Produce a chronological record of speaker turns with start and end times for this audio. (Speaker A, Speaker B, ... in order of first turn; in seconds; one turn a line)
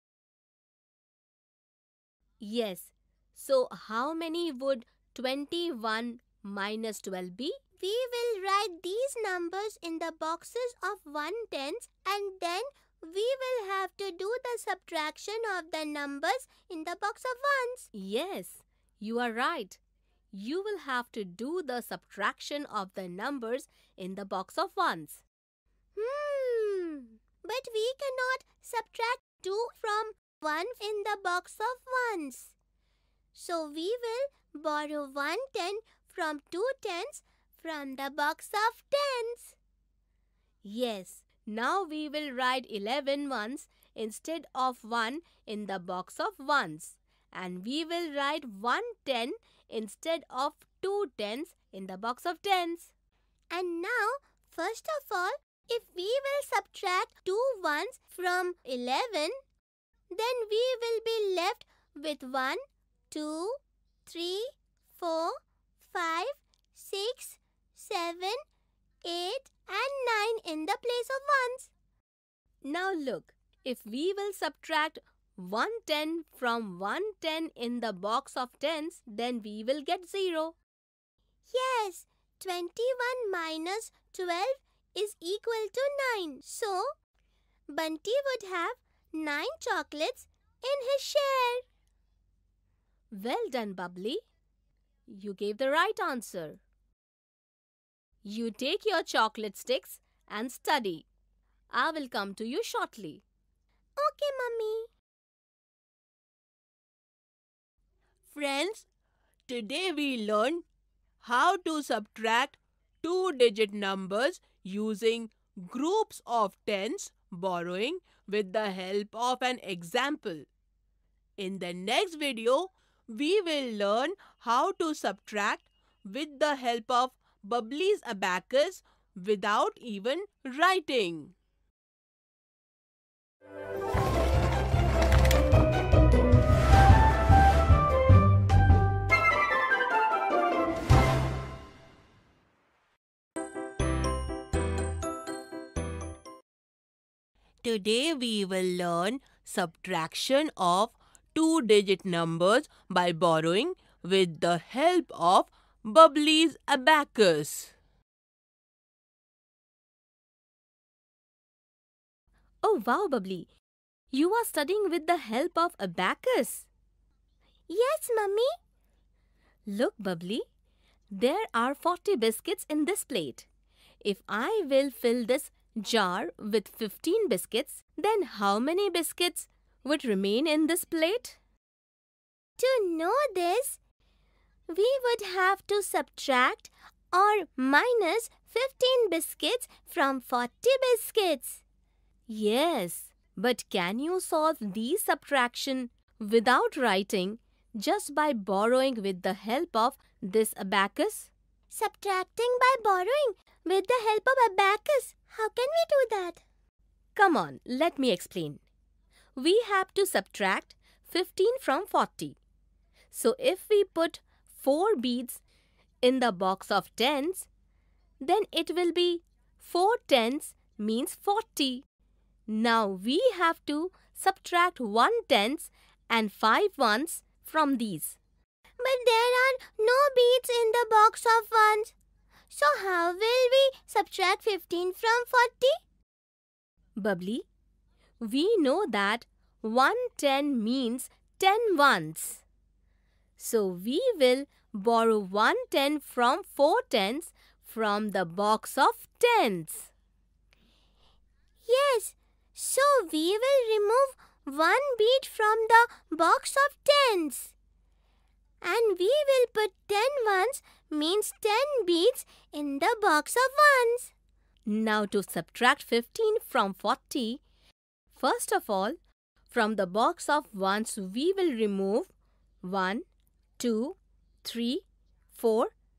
Speaker A: 2.4-7.6
Speaker B: 7.8-17.9
Speaker A: 17.9-19.8
Speaker A: 20.3-25.2
Speaker B: 25.9-32.5
Speaker B: 33.3-39.5
Speaker A: 40.6-52.9
Speaker B: 53.5-59.3
Speaker B: 60.1-62.6
Speaker B: 63.1-68.4
Speaker B: 69.0-71.7
Speaker A: 72.6-80.6
Speaker B: 81.5-86.9
Speaker B: 87.7-91.6
Speaker A: 93.1-94.2
Speaker A: 95.1-96.6
Speaker A: 98.2-101.1
Speaker A: 101.7-103.2
Speaker B: 104.0-104.9
Speaker A: 108.3-108.8
Speaker C: 108.3-108.8
Speaker C: 109.5-110.6
Speaker A: 109.5-110.6
Speaker A: 111.2-120.4
Speaker C: 111.2-112.5
Speaker C: 113.0-120.4
Speaker C: 121.4-125.6
Speaker A: 121.4-122.3
Speaker A: 124.1-131.3
Speaker C: 126.1-131.3
Speaker C: 147.6-157.7
Speaker A: 149.2-149.5
Speaker A: 152.7-152.9
Speaker A: 153.8-154.4
Speaker A: 156.5-157.1
Speaker A: 162.6-163.5
Speaker A: 164.1-166.7
Speaker B: 167.7-168.5
Speaker A: 169.7-170.4
Speaker A: 171.1-173.5
Speaker A: 174.0-181.4
Speaker B: 182.6-183.8
Speaker B: 184.7-191.6
Speaker A: 192.3-201.3
Speaker B: 201.7-206.4
Speaker A: 207.2-208.6
Speaker A: 209.4-212.4
Speaker A: 213.1-215.4
Speaker A: 216.0-217.5
Speaker A: 218.2-221.8
Speaker A: 222.5-228.2
Speaker B: 228.8-231.9
Speaker B: 232.5-235.8
Speaker A: 237.0-237.5
Speaker A: 238.2-242.4
Speaker A: 243.4-249.9
Speaker B: 251.7-257.5
Speaker B: 258.6-264.1
Speaker A: 264.6-267.4
Speaker A: 268.1-269.0
Speaker A: 269.5-272.1
Speaker A: 272.6-273.0
Speaker A: 273.6-275.7